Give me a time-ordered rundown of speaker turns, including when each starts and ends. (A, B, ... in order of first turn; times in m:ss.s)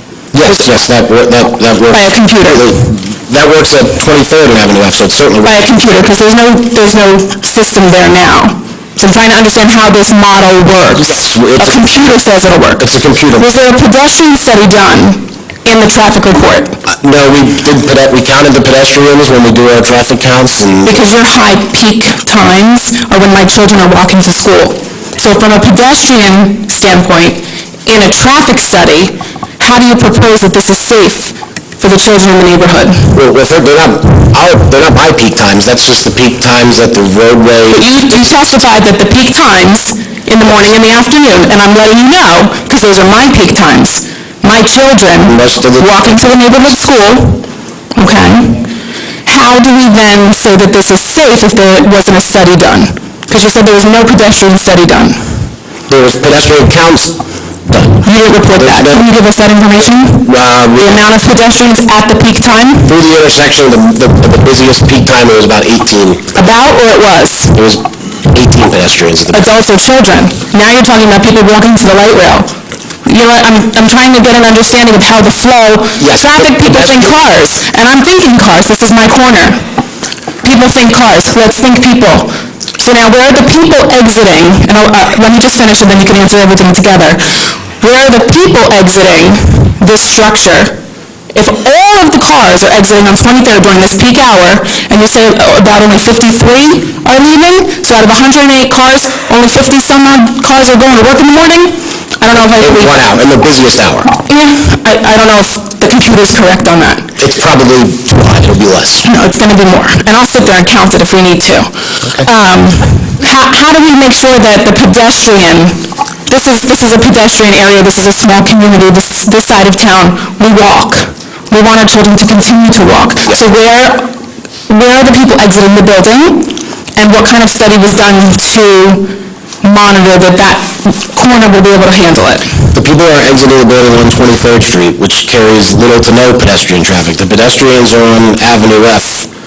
0:00.3-0:05.6 A
0:01.9-0:02.7 B
0:05.4-0:16.8 B
0:11.0-0:12.0 A
0:12.8-0:13.5 A
0:16.9-0:21.0 A
0:20.8-0:33.2 B
0:33.1-0:38.6 A
0:37.7-0:47.4 B
0:45.2-0:46.4 A
0:48.0-0:48.7 B
0:49.3-0:55.4 B
0:55.9-0:57.2 A
0:57.7-0:59.0 A
0:58.0-1:03.0 B
1:00.1-1:01.0 A
1:02.9-1:06.2 A
1:06.4-1:07.6 B
1:07.6-1:09.5 A
1:09.3-1:12.5 B
1:13.1-1:19.6 B
1:16.0-1:17.2 A
1:20.4-1:30.8 B
1:31.3-1:43.0 B
1:42.3-1:44.2 A
1:44.3-1:47.1 B
1:47.2-1:49.1 A
1:49.0-2:04.1 B
2:04.7-2:12.6 B
2:12.7-2:19.3 A